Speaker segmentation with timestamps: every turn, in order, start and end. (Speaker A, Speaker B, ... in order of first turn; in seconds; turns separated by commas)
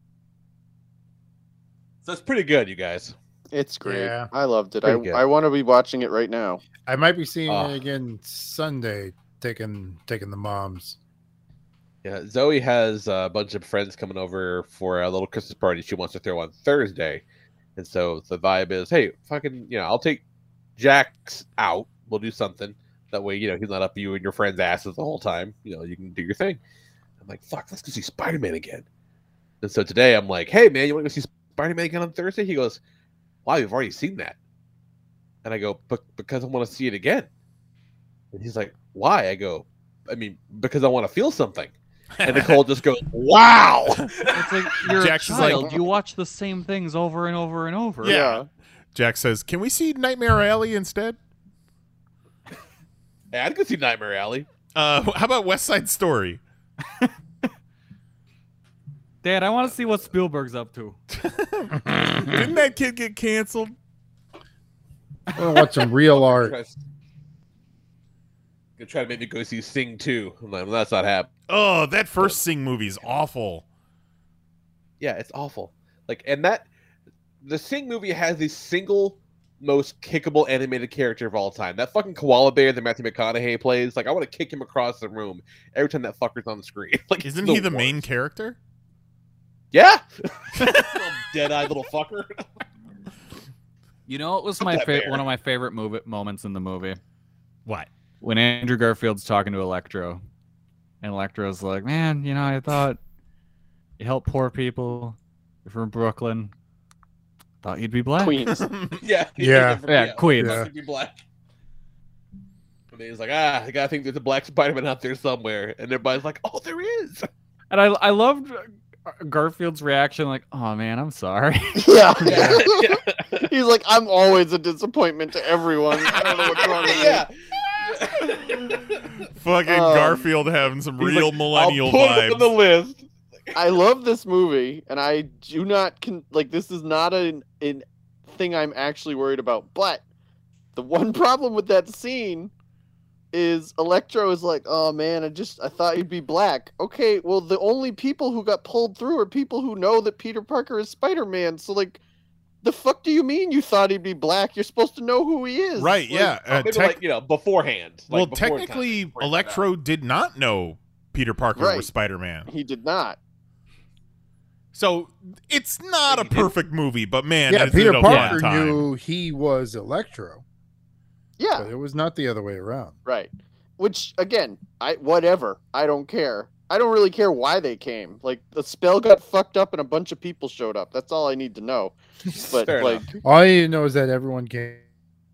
Speaker A: 2.0-3.1, Speaker B: 3.5-6.6, Speaker C: 3.8-4.3, Speaker A: 4.8-5.2, Speaker C: 6.8-11.0, Speaker A: 7.5-7.7, Speaker A: 12.0-17.2, Speaker A: 17.8-20.2, Speaker A: 20.8-26.6, Speaker A: 27.2-28.8, Speaker A: 29.6-32.8, Speaker A: 33.4-34.4, Speaker A: 35.4-37.3, Speaker A: 38.3-41.7, Speaker D: 42.2-42.6, Speaker A: 42.2-44.5, Speaker E: 44.3-48.2, Speaker D: 44.9-45.7, Speaker D: 48.0-48.4, Speaker B: 48.0-48.4, Speaker D: 48.9-51.2, Speaker A: 53.3-54.5, Speaker D: 54.7-56.4, Speaker E: 59.2-61.0, Speaker D: 61.1-63.7, Speaker C: 65.3-66.6, Speaker A: 66.1-66.8, Speaker A: 68.8-71.3, Speaker D: 71.5-73.7, Speaker A: 75.0-76.7, Speaker A: 77.4-88.0, Speaker D: 87.2-88.6, Speaker A: 89.7-92.4, Speaker D: 90.5-91.0, Speaker E: 94.1-97.0, Speaker A: 94.6-95.2, Speaker E: 98.2-100.2, Speaker E: 101.0-103.0, Speaker E: 104.0-106.5, Speaker E: 107.6-108.4, Speaker B: 108.2-108.7, Speaker D: 108.6-109.0, Speaker A: 109.0-111.2, Speaker C: 109.4-109.8, Speaker E: 109.9-110.6, Speaker C: 110.3-110.7, Speaker A: 112.9-117.3, Speaker E: 117.7-121.9, Speaker B: 121.8-127.2, Speaker A: 122.2-123.5, Speaker A: 126.0-129.1, Speaker D: 128.6-132.5, Speaker B: 129.7-130.3, Speaker A: 131.0-133.6, Speaker B: 133.5-140.0, Speaker B: 140.8-142.5, Speaker B: 143.3-152.0, Speaker B: 152.6-156.1, Speaker D: 155.8-157.0, Speaker A: 156.1-159.6, Speaker D: 158.1-162.5, Speaker B: 161.6-161.9, Speaker B: 162.5-163.2, Speaker D: 164.7-168.8, Speaker A: 166.1-166.5, Speaker C: 167.5-170.4, Speaker E: 168.0-168.4, Speaker B: 171.4-171.7, Speaker C: 171.6-173.0, Speaker B: 173.1-183.1, Speaker A: 182.3-183.1, Speaker C: 183.2-184.8